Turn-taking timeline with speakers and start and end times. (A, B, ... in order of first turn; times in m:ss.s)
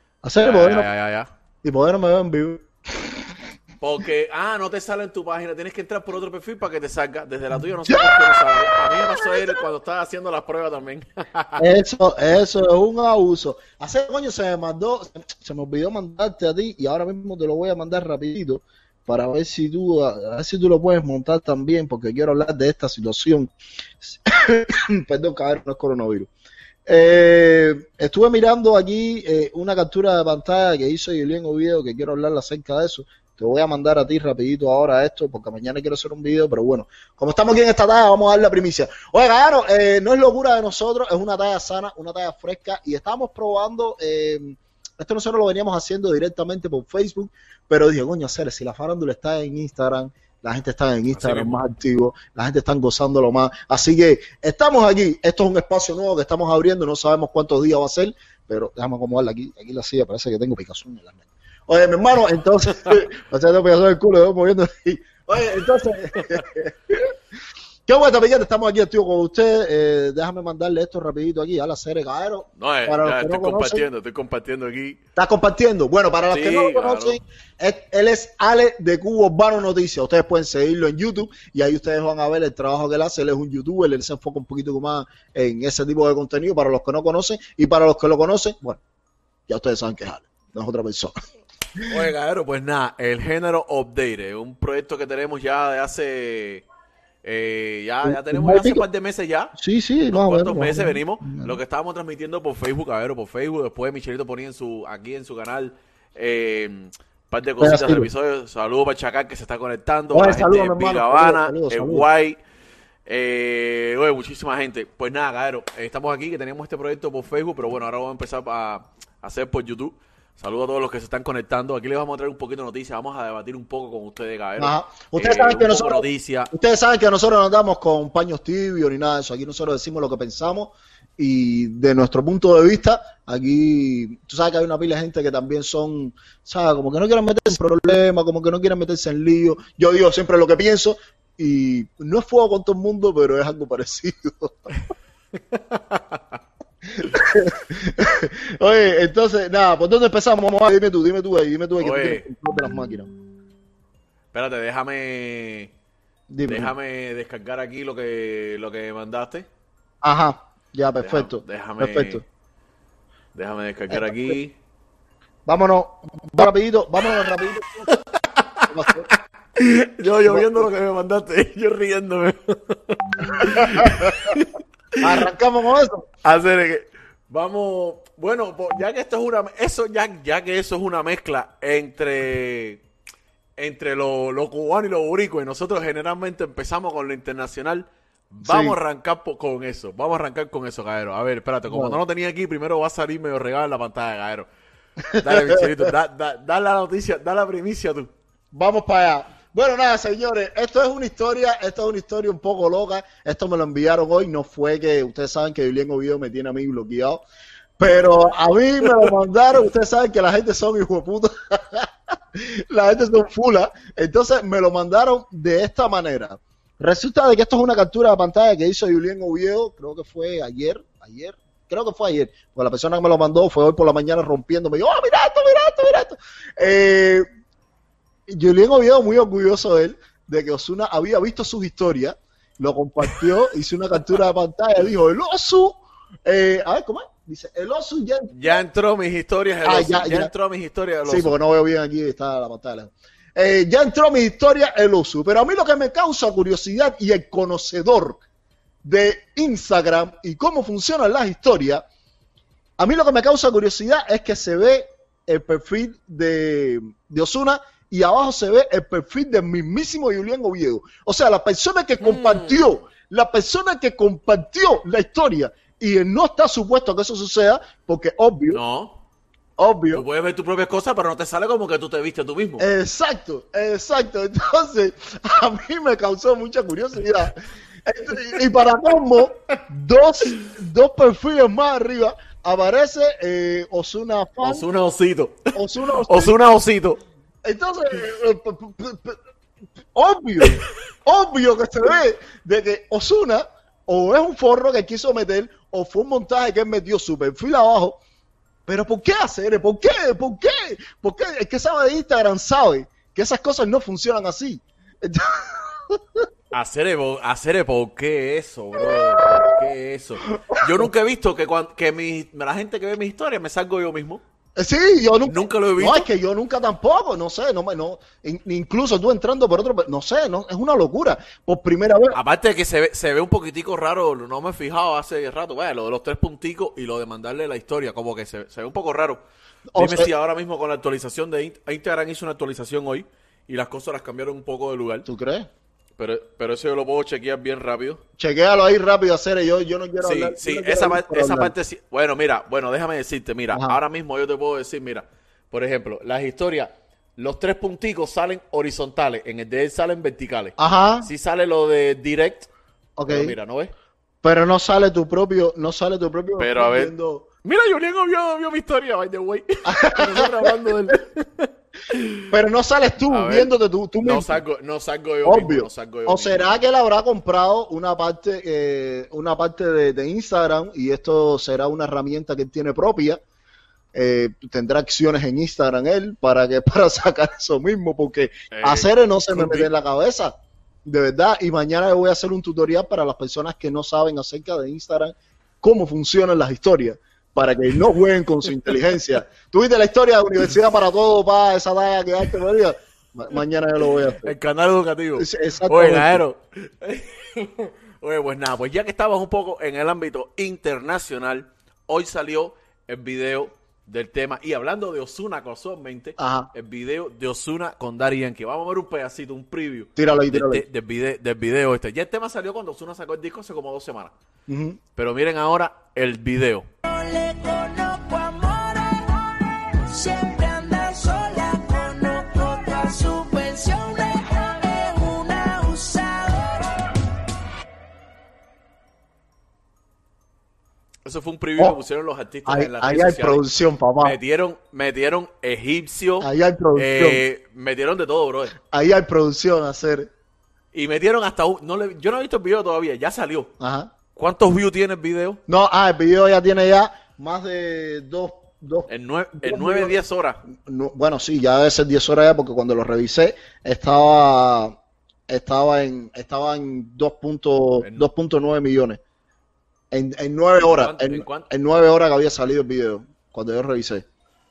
0:00.2-0:00.9 A
0:00.4-0:01.3 B
0:01.6-0:03.2 A
0:03.8-0:11.6 B
0:07.6-0:08.4 A
0:08.9-0:09.6 A
0:11.6-0:26.3 A
0:26.8-1:07.1 A
0:51.1-0:51.6 B
1:02.7-1:03.0 B
1:07.9-1:13.8 A
1:12.6-1:15.0 B
1:15.2-1:28.8 A
1:16.3-1:17.2 B
1:29.5-1:31.1 A
1:31.9-1:36.6 B
1:37.2-1:39.5 B
1:38.0-1:38.8 A
1:39.6-1:41.6 A
1:40.1-1:52.4 B
1:47.6-1:48.1 A
1:50.1-1:52.1 A
1:53.1-2:06.5 B
2:04.6-2:24.6 A
2:25.4-2:26.4 B
2:26.9-2:33.1 A
2:31.8-2:32.2 B
2:34.3-2:35.7 B
2:36.3-2:36.7 A
2:36.4-2:39.5 B
2:40.0-2:42.2 A
2:41.0-2:42.2 B
2:43.3-2:44.6 B
2:43.9-2:44.4 A
2:45.4-2:48.0 A
2:47.9-2:55.2 B
2:48.7-2:49.1 A
2:50.2-2:50.7 A
2:53.4-2:54.4 A
2:55.0-2:56.1 A
2:56.2-3:02.8 B
3:03.6-3:14.5 B
3:08.4-3:08.8 A
3:11.7-3:12.0 A
3:15.1-3:15.9 A
3:15.2-3:18.1 B
3:18.5-3:27.2 A
3:27.8-3:47.2 A
3:48.3-3:58.6 A
3:58.3-4:01.3 B
3:59.6-4:00.3 A
4:01.0-4:08.2 A
4:08.8-4:11.8 A
4:12.8-4:28.6 A
4:22.0-4:22.7 B
4:28.5-4:29.0 B
4:29.6-4:30.0 A
4:29.9-4:32.7 B
4:32.6-4:44.6 A
4:44.4-4:47.0 B
4:45.5-4:46.3 A
4:47.4-4:49.2 A
4:49.9-4:58.0 A
4:58.6-5:06.2 A
5:06.5-5:14.2 B
5:10.4-5:10.9 A
5:14.6-5:22.2 A
5:15.2-5:16.1 B
5:22.1-5:29.2 B
5:29.7-5:30.1 A
5:29.7-5:35.0 B
5:35.0-5:35.5 A
5:36.0-5:38.0 B
5:38.2-5:41.5 A
5:40.0-5:52.5 B
5:43.5-5:43.8 A
5:50.6-5:51.1 A
5:53.0-5:53.4 A
5:53.1-5:53.7 B
5:54.2-5:57.2 A
5:56.4-5:56.9 B
5:57.4-6:02.3 B
5:59.6-6:00.6 A
6:02.3-6:04.4 A
6:03.1-6:06.5 B
6:05.2-6:13.2 A
6:13.9-6:20.3 A
6:18.5-6:19.7 B
6:20.8-6:34.3 A
6:34.2-6:54.1 B
6:35.2-6:36.2 A
6:46.2-6:46.5 A
6:50.0-6:50.6 A
6:54.5-6:54.8 A
6:55.0-6:56.7 B
6:56.8-7:06.9 C
7:11.0-7:13.4 B
7:12.4-7:14.2 A
7:14.0-7:18.5 B
7:16.2-7:17.2 A
7:18.6-7:20.1 A
7:20.7-7:23.5 B
7:23.6-7:23.9 A
7:24.1-7:25.4 B
7:25.5-7:28.9 A
7:28.9-7:30.4 B
7:29.4-7:29.9 A
7:30.5-7:34.7 A
7:35.3-7:39.0 A
7:37.8-7:38.1 B
7:39.9-7:44.0 A
7:40.6-7:41.5 B